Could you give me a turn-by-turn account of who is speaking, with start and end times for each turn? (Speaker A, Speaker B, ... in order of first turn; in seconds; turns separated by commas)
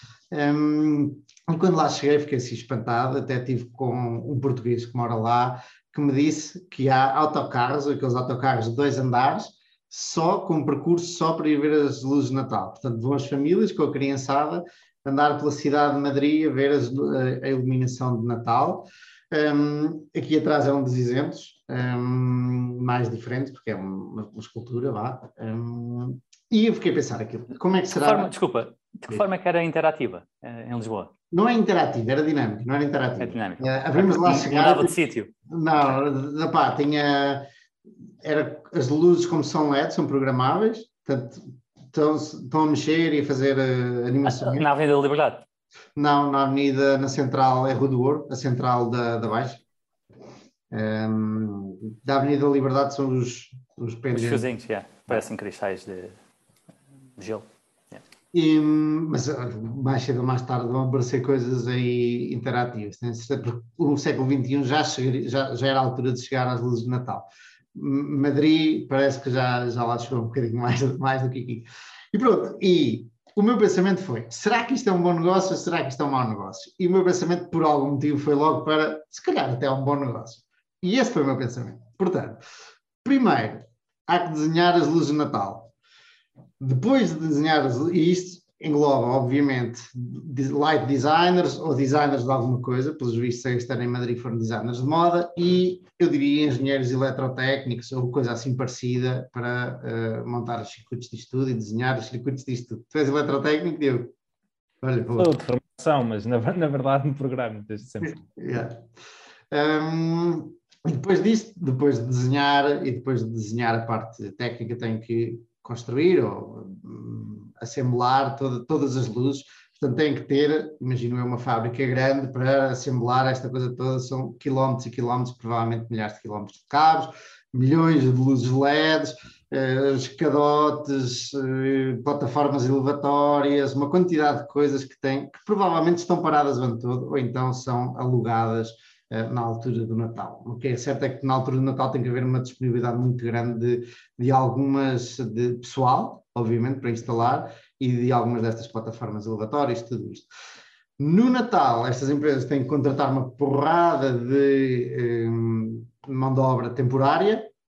Speaker A: 0.3-28.3, Speaker B: 28.0-31.1, Speaker A: 31.3-34.9, Speaker B: 33.2-35.3, Speaker A: 35.5-37.5, Speaker A: 38.2-44.7, Speaker B: 44.2-45.4, Speaker A: 46.0-49.6, Speaker A: 50.7-54.5, Speaker B: 54.1-56.2, Speaker B: 57.2-58.0, Speaker A: 58.3-82.4, Speaker A: 83.0-85.7, Speaker A: 86.6-104.1, Speaker A: 104.8-105.4, Speaker C: 105.2-108.2, Speaker A: 108.0-108.8, Speaker A: 109.5-150.3, Speaker A: 151.0-157.5